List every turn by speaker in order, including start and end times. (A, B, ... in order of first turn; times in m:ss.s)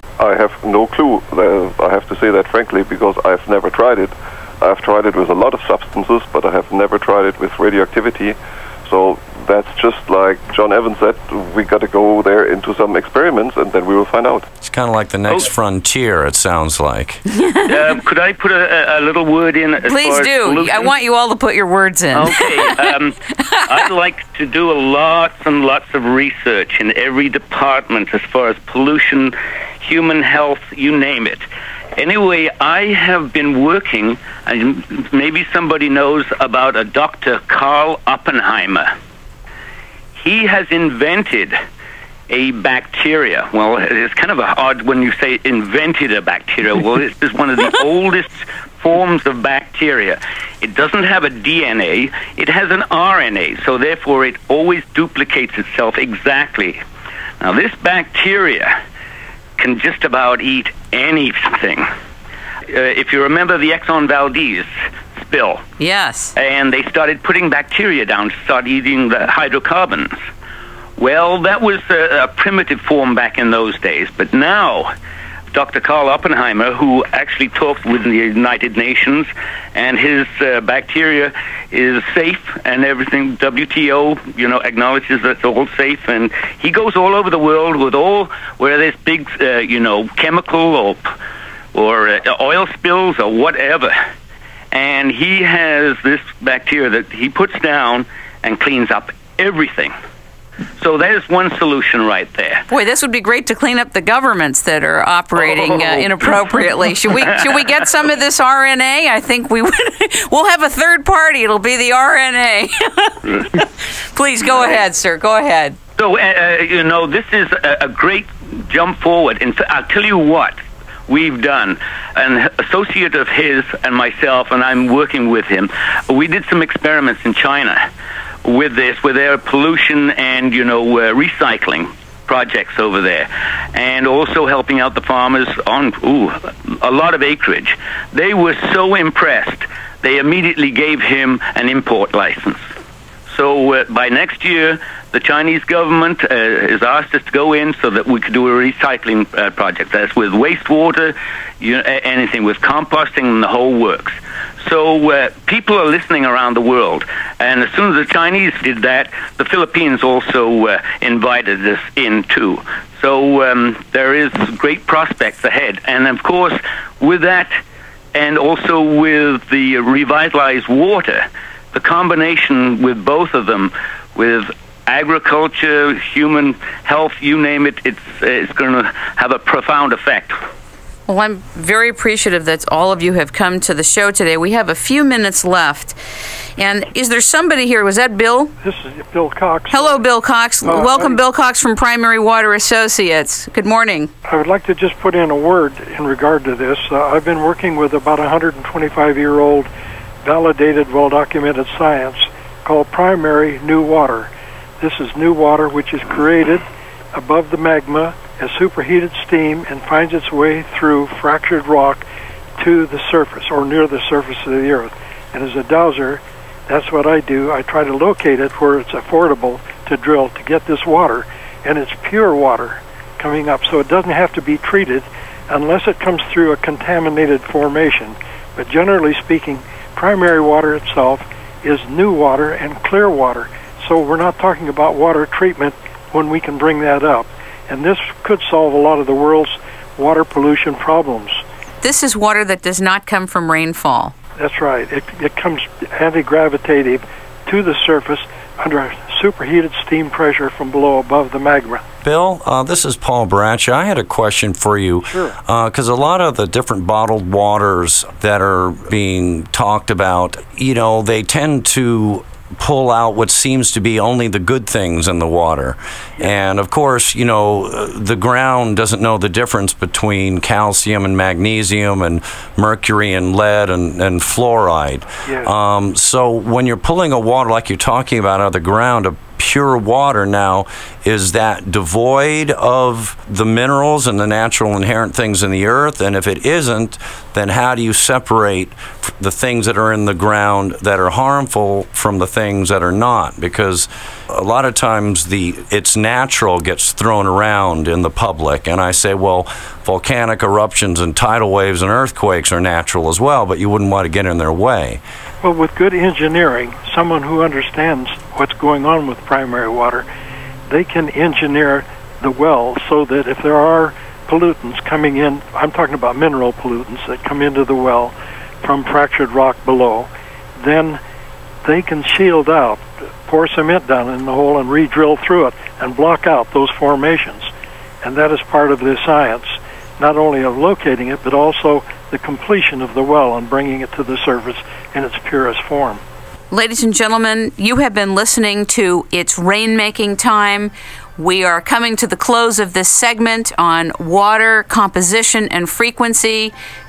0:00.2-0:14.5 A
0:14.6-0:17.2 B
0:17.6-0:20.9 C
0:19.8-0:23.7 D
0:22.1-0:38.9 C
0:40.2-0:41.6 C
0:42.3-0:56.8 C
0:57.4-0:58.7 C
0:59.6-1:01.9 C
1:02.7-1:05.6 C
1:05.8-1:06.3 D
1:06.3-1:10.2 C
1:11.0-1:14.9 C
1:15.5-1:31.1 C
1:31.7-1:34.0 C
1:34.7-1:39.9 C
1:40.8-1:42.6 C
1:42.7-1:55.8 D
1:45.4-1:46.0 C
1:47.1-1:47.7 C
1:56.0-2:07.8 C
2:08.4-2:22.6 C
2:23.3-2:47.6 C
2:48.1-3:00.4 C
3:01.1-3:06.0 D
3:06.6-3:08.5 D
3:08.6-3:10.0 E
3:09.7-3:14.1 D
3:10.6-3:11.2 E
3:14.2-3:19.7 E
3:20.2-3:32.0 E
3:32.6-4:01.4 E
4:01.8-4:04.1 D
4:04.4-4:11.8 E
4:12.0-5:05.0 B
4:15.1-4:15.3 E
4:35.2-4:35.5 E
5:05.4-5:10.0 E
5:10.7-5:21.0 E
5:21.6-5:27.5 E
5:28.0-5:36.0 E
5:36.5-5:46.5 D